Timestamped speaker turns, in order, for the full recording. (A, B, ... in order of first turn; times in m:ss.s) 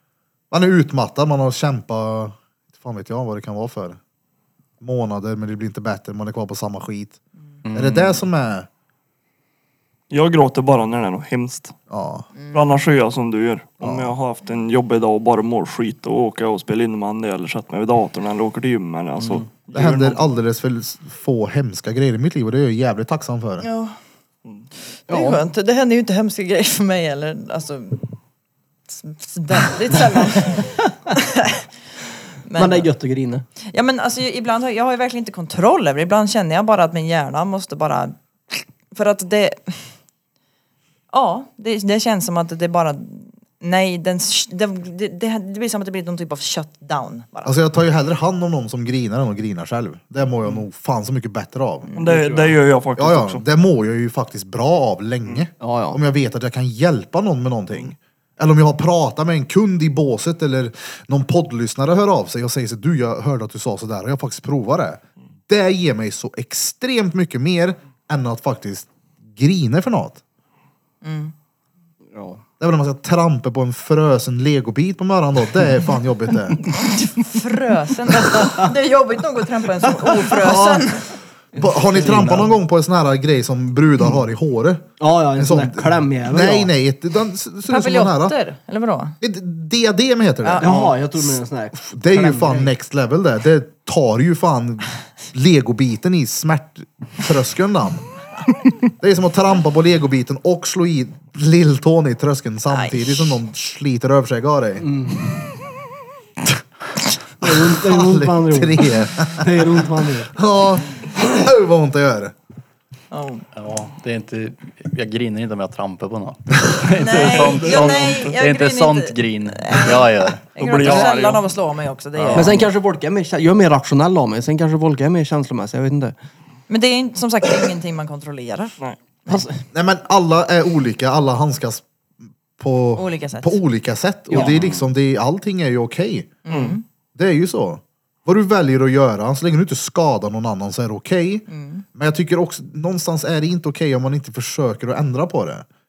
0:00.5-0:04.0 A
0:04.8-0:07.2 A
0:07.6-0:08.2 B
0:07.7-0:08.7 A
0:10.1-0:11.7 C
0:11.9-0:12.3 A
0:12.4-0:12.6 D
0:12.5-0:20.3 C
0:13.8-0:14.1 A
0:19.7-0:23.7 A
0:23.6-0:24.0 D
0:25.1-0:28.1 D
0:25.1-0:25.4 E
0:28.9-0:31.7 D
0:32.4-0:32.9 D
0:32.6-0:33.5 E
0:33.7-0:39.9 D
0:41.1-0:47.6 D
0:47.4-0:51.9 A
0:52.0-0:53.4 C
0:52.1-0:52.5 E
0:53.0-1:10.2 A
0:55.6-0:56.0 E
1:11.0-1:11.3 D
1:12.1-1:12.4 E
1:12.6-1:16.6 A
1:16.6-1:21.1 D
1:20.3-1:21.0 A
1:21.6-1:28.4 A
1:21.6-1:22.6 E
1:25.0-1:26.7 E
1:27.7-1:29.2 D
1:29.2-1:38.1 A
1:30.4-1:30.9 D
1:30.6-1:32.7 E
1:39.0-1:44.9 A
1:42.7-1:43.3 D
1:44.8-1:45.3 E
1:47.4-1:50.3 E
1:47.4-1:49.8 A
1:50.3-1:52.3 A
1:53.1-1:53.4 D
1:53.6-2:01.1 B
1:57.0-2:02.6 D
1:57.2-1:58.1 C
2:00.6-2:01.4 C
2:02.2-2:02.6 B
2:02.3-2:06.2 E
2:06.7-2:08.7 D
2:09.3-2:09.6 E
2:09.7-2:11.8 A
2:12.6-2:16.3 A
2:13.0-2:13.6 D
2:14.3-2:14.6 E
2:14.4-2:14.8 B
2:16.4-2:16.8 D
2:16.5-2:16.8 C
2:17.2-2:25.7 A
2:21.5-2:21.8 D